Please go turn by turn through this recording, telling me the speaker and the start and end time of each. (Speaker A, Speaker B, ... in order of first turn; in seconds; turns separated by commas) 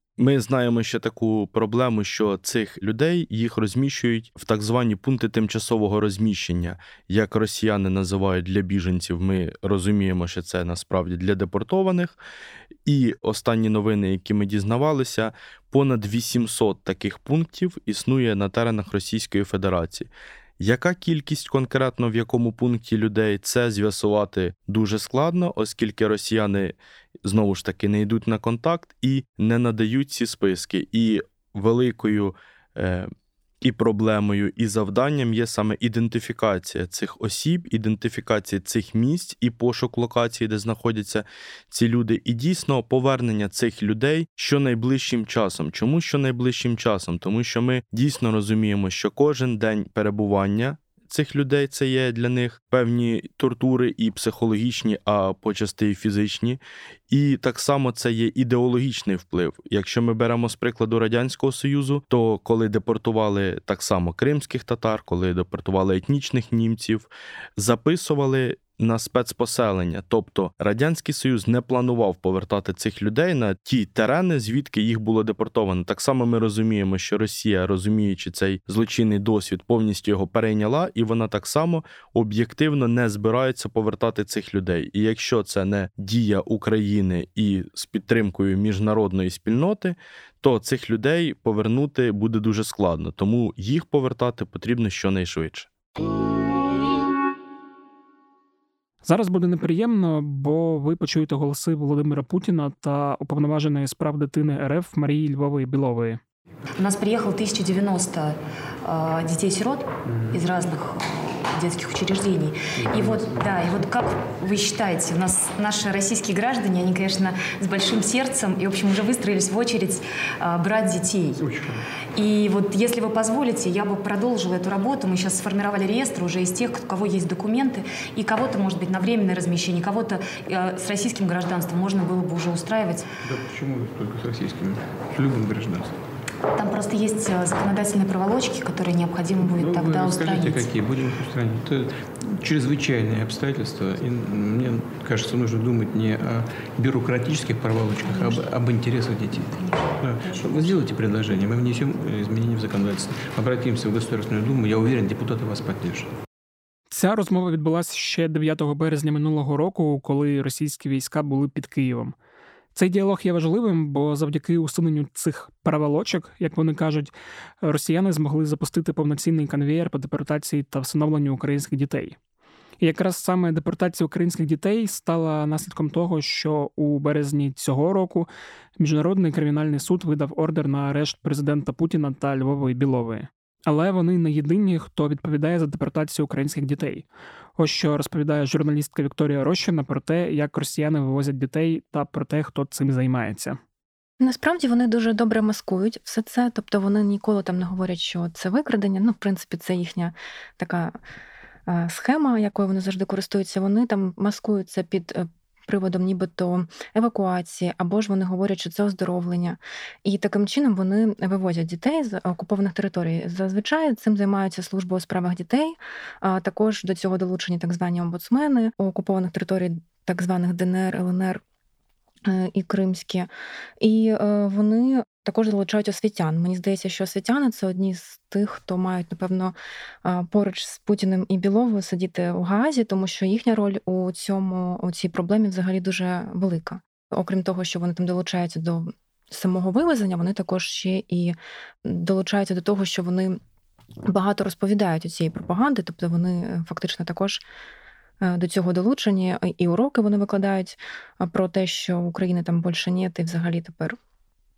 Speaker A: 0.2-12.2, Speaker A: 12.8-33.1, Speaker A: 33.6-95.7, Speaker B: 99.0-106.2, Speaker C: 106.8-121.5, Speaker D: 112.8-113.4, Speaker D: 121.4-121.8, Speaker C: 122.1-133.1, Speaker D: 133.2-136.0, Speaker C: 136.5-140.7, Speaker D: 139.4-156.1, Speaker C: 148.0-148.4, Speaker C: 149.7-150.7, Speaker B: 156.9-162.1, Speaker B: 162.7-172.2, Speaker B: 172.8-178.3, Speaker B: 178.8-187.1, Speaker B: 187.6-193.6, Speaker E: 194.2-200.9, Speaker E: 201.7-221.4, Speaker E: 222.2-223.3, Speaker E: 223.8-243.4, Speaker E: 244.1-247.4, Speaker E: 248.2-254.0